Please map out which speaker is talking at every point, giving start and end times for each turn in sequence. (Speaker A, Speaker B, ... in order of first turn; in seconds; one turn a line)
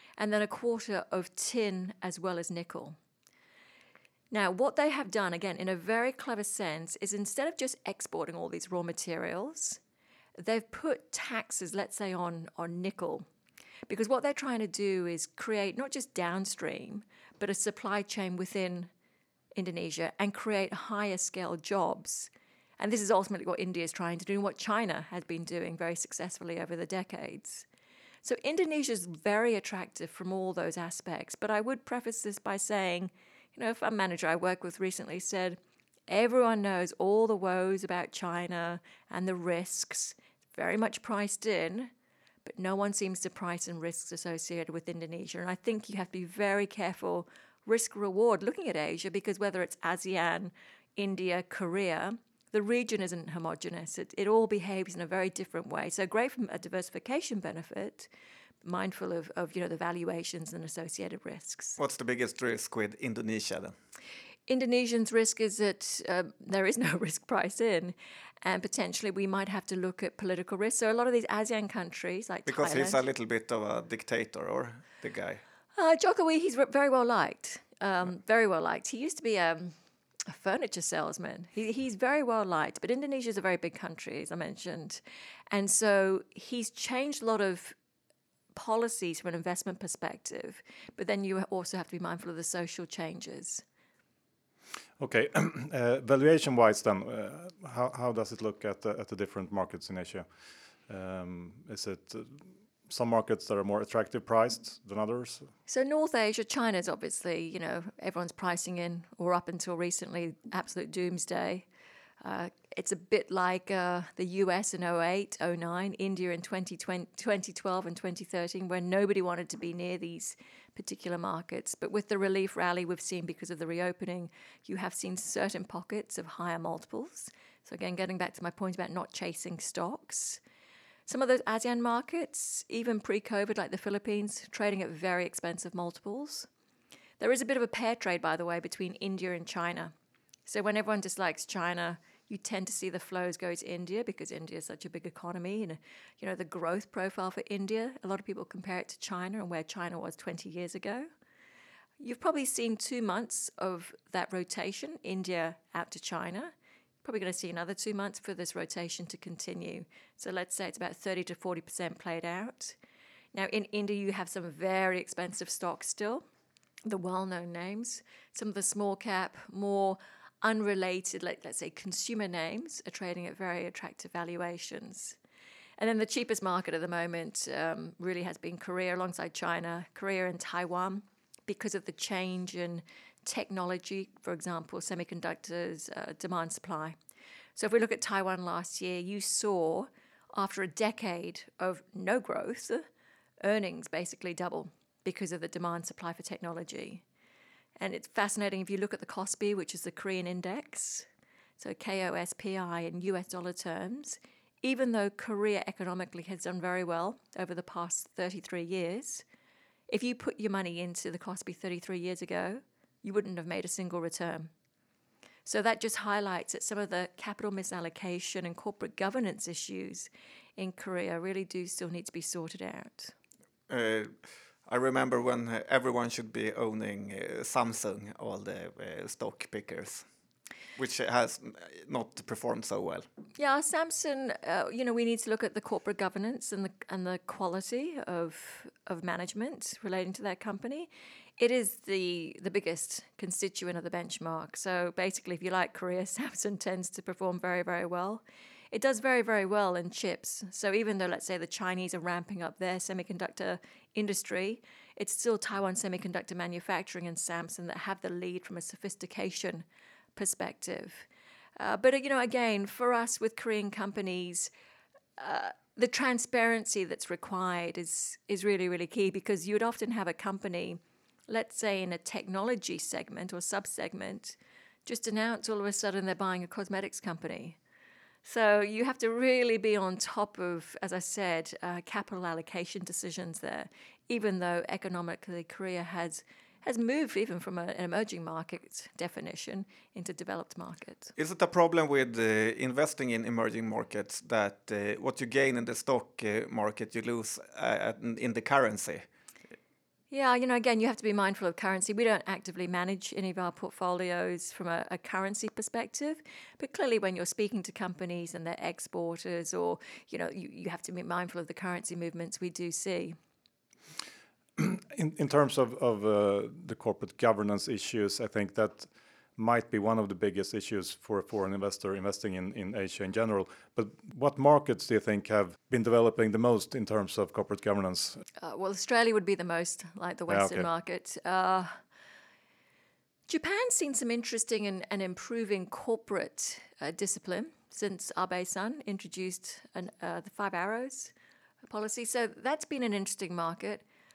Speaker A: 0.2-3.0
Speaker A: 4.3-9.8
Speaker A: 10.4-13.3
Speaker A: 13.9-18.9
Speaker A: 19.6-27.7
Speaker A: 28.2-41.9
Speaker A: 42.5-58.1
Speaker A: 58.6-61.8
Speaker B: 61.8-63.8
Speaker A: 64.5-73.0
Speaker B: 72.5-75.4
Speaker A: 75.8-79.8
Speaker A: 80.3-87.8
Speaker A: 88.5-93.6
Speaker C: 95.0-100.2
Speaker C: 100.9-105.5
Speaker A: 105.7-111.7
Speaker A: 112.2-130.4
Speaker A: 131.1-136.5
Speaker A: 137.2-139.9
Speaker A: 140.5-151.1
Speaker A: 152.0-156.5
Speaker A: 157.0-162.8
Speaker A: 163.3-166.2
Speaker A: 166.8-175.2
Speaker A: 175.8-187.0
Speaker A: 187.6-192.8
Speaker A: 193.4-197.0
Speaker A: 197.8-201.1
Speaker A: 201.6-209.2
Speaker A: 209.9-214.5
Speaker A: 215.5-223.1
Speaker B: 223.7-224.1
Speaker B: 224.7-230.1
Speaker B: 230.8-233.1
Speaker A: 233.4-259.6
Speaker A: 260.2-261.1
Speaker A: 261.6-264.5
Speaker A: 265.2-277.6
Speaker A: 278.2-291.1
Speaker B: 291.2-299.1
Speaker A: 300.1-313.2
Speaker C: 314.6-328.2
Speaker A: 328.4-331.8
Speaker C: 330.3-330.7
Speaker A: 333.3-341.1
Speaker A: 341.7-343.8